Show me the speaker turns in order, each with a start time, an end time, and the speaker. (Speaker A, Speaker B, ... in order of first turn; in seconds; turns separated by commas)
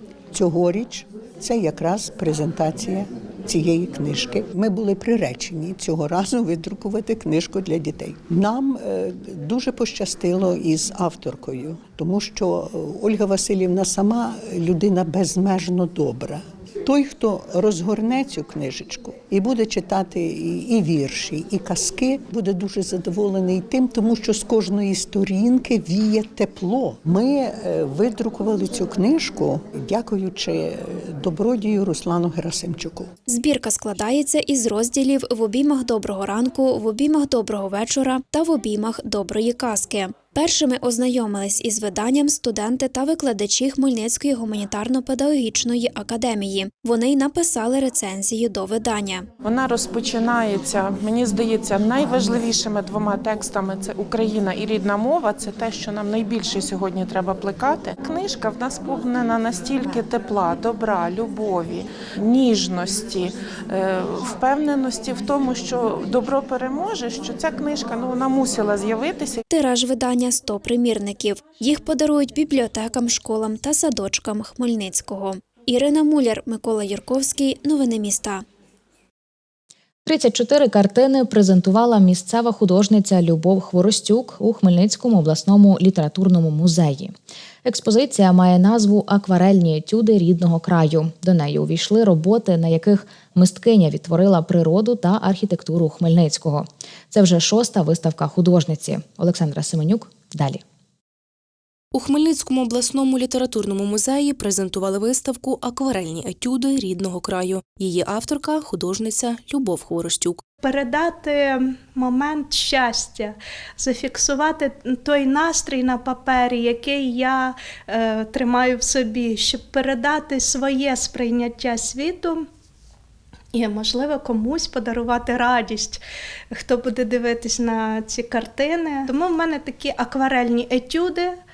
Speaker A: 0.3-33.1, Speaker B: 33.3-49.3, Speaker C: 49.4-69.4, Speaker B: 69.5-78.5, Speaker D: 80.0-87.1, Speaker D: 87.7-100.6, Speaker E: 101.9-110.4, Speaker F: 110.6-122.4, Speaker F: 123.5-126.0, Speaker F: 126.5-131.4